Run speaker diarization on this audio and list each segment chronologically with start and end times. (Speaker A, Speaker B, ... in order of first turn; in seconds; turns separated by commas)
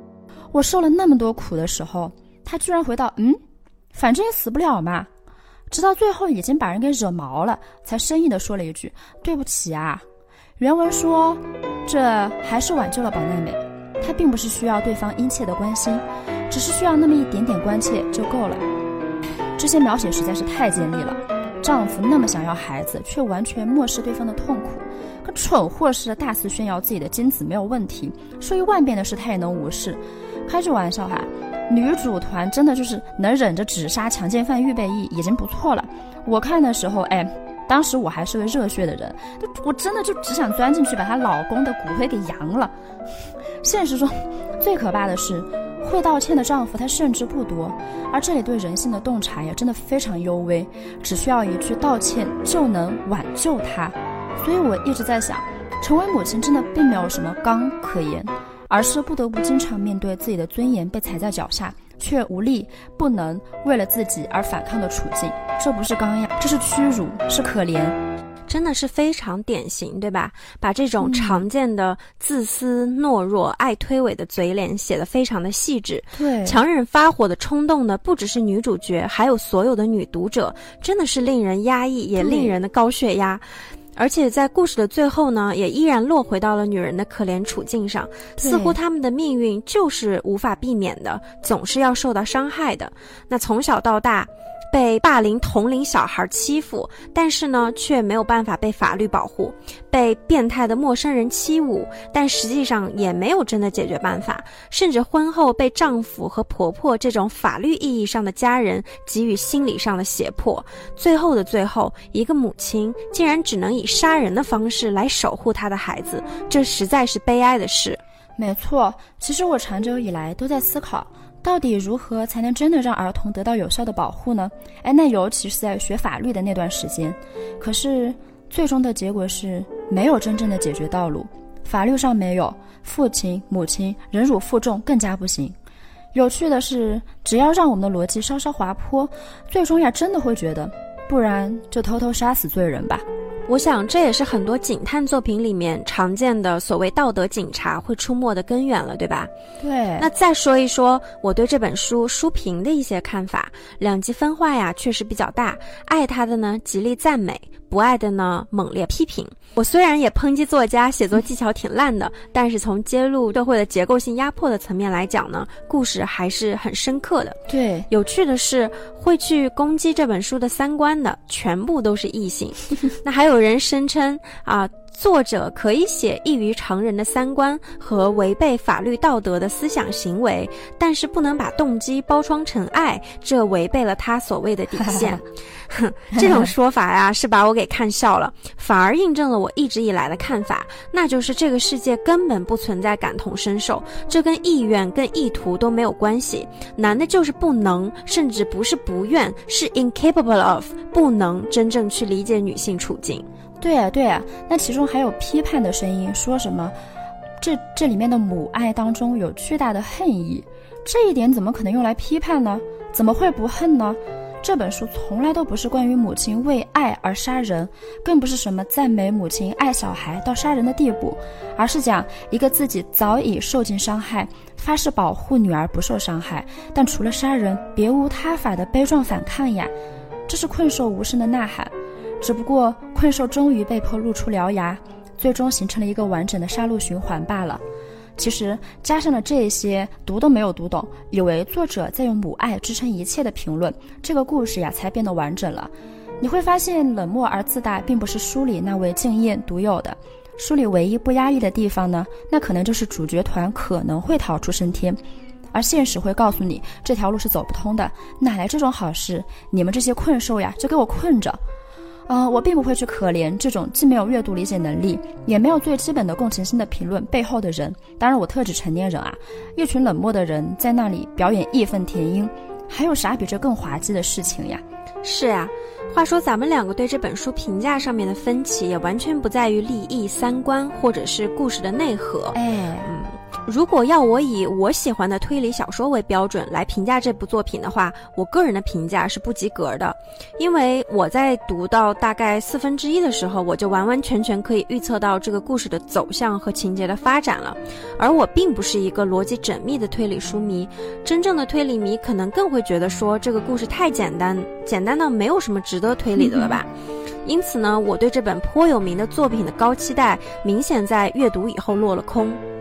Speaker A: 0.5-3.4, Speaker A: 3.9-5.1, Speaker A: 5.7-10.0, Speaker A: 10.6-18.6, Speaker A: 19.6-42.7, Speaker A: 43.6-68.0, Speaker B: 68.5-83.4, Speaker A: 71.0-71.4, Speaker A: 76.2-76.6, Speaker A: 82.2-82.5, Speaker B: 84.0-118.0, Speaker A: 88.4-88.8, Speaker A: 118.4-135.6, Speaker A: 136.1-143.1, Speaker B: 143.5-149.3, Speaker A: 149.6-150.1, Speaker B: 150.0-203.2, Speaker A: 167.5-167.9, Speaker A: 186.2-186.5, Speaker A: 203.6-206.7, Speaker A: 207.4-229.7, Speaker A: 230.3-237.6, Speaker A: 238.2-255.0, Speaker A: 255.5-261.4, Speaker A: 262.1-274.6, Speaker B: 275.0-306.7, Speaker A: 282.3-282.9, Speaker A: 306.2-306.6, Speaker B: 307.2-312.4